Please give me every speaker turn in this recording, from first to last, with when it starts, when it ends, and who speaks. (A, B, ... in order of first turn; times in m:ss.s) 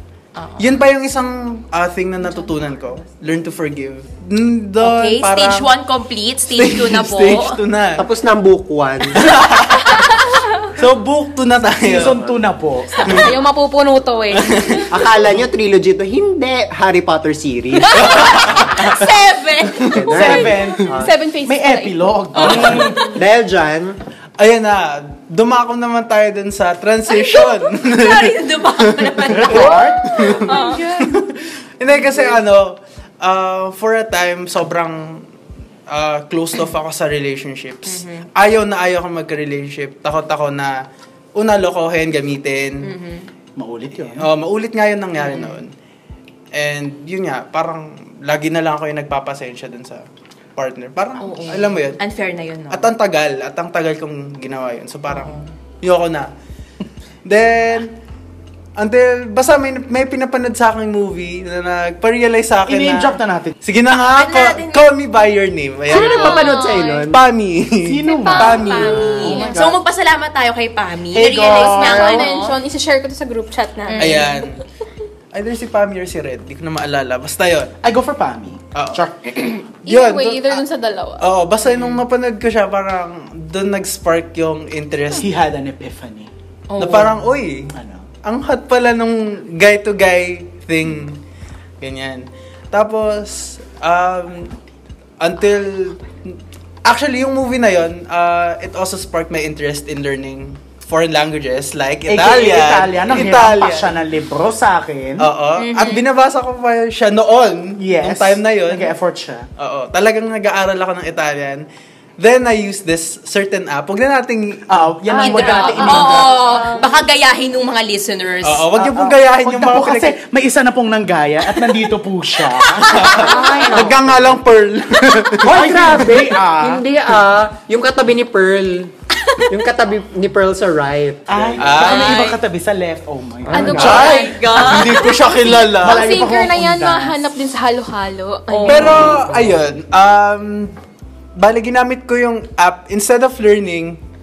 0:00.4-0:00.8 A
0:00.6-0:05.7 B
0:04.8-0:07.6 A
0:06.5-0:08.0 B
0:08.0-0:09.3 C
0:09.2-0:12.2 B
0:09.8-0:10.5 D
0:11.8-0:13.3 E
0:12.1-0:12.4 C
0:13.0-0:15.0 D
0:13.0-0:13.3 B
0:14.3-0:14.9 B
0:14.9-0:18.5 C
0:17.8-0:19.0 D
0:18.0-0:18.9 B
0:18.2-0:20.0 A
0:19.9-0:21.2 C
0:19.9-0:23.1 D
0:20.0-0:23.2 E
0:22.3-0:23.0 A
0:23.1-0:24.0 C
0:24.4-0:35.2 B
0:27.1-0:30.9 A
0:29.3-0:30.1 E
0:29.6-0:31.3 D
0:35.9-0:40.8 B
0:37.8-0:38.3 A
0:41.4-0:42.9 B
0:42.8-0:43.3 A
0:43.6-0:44.3 E
0:44.0-0:45.7 B
0:45.2-0:45.6 A
0:46.5-0:50.0 B
0:50.6-0:52.0 B
0:51.2-0:52.9 A
0:52.7-0:56.3 B
0:55.1-0:55.5 A
0:57.2-0:57.9 B
0:58.8-1:09.4 B
1:02.7-1:03.5 E
1:04.0-1:04.8 A
1:05.9-1:07.2 C
1:05.9-1:07.1 D
1:07.8-1:09.8 E
1:08.0-1:09.6 D
1:08.6-1:12.6 A
1:11.1-1:12.3 E
1:11.3-1:14.5 D
1:13.9-1:14.4 A
1:14.0-1:14.6 B
1:15.3-1:17.7 B
1:17.8-1:19.4 E
1:18.8-1:20.6 B
1:19.9-1:21.3 D
1:21.2-1:25.3 B
1:21.7-1:22.0 A
1:25.2-1:26.3 E
1:26.7-1:27.2 A
1:26.8-1:27.7 B
1:27.7-1:28.1 E
1:28.2-1:31.2 B
1:31.8-1:34.5 B
1:35.2-1:43.9 B
1:42.1-1:45.3 E
1:45.2-1:48.9 B
1:45.6-1:46.0 A
1:47.8-1:49.4 E
1:49.6-1:51.6 B
1:52.2-1:54.8 B
1:54.7-1:56.4 E
1:55.1-1:57.0 D
1:55.2-1:58.7 A
1:58.4-2:00.2 B
1:58.8-2:04.2 E
2:02.7-2:03.9 A
2:02.9-2:05.8 B
2:03.2-2:03.9 D
2:05.4-2:06.8 E
2:05.4-2:11.8 C
2:11.3-2:14.2 E
2:11.6-2:12.2 B
2:11.8-2:12.4 A
2:13.5-2:14.0 C
2:13.5-2:19.2 D
2:13.7-2:16.1 B
2:13.8-2:15.3 A
2:15.8-2:17.3 E
2:18.5-2:19.3 A
2:18.7-2:20.7 B
2:19.0-2:19.2 E
2:21.4-2:24.0 B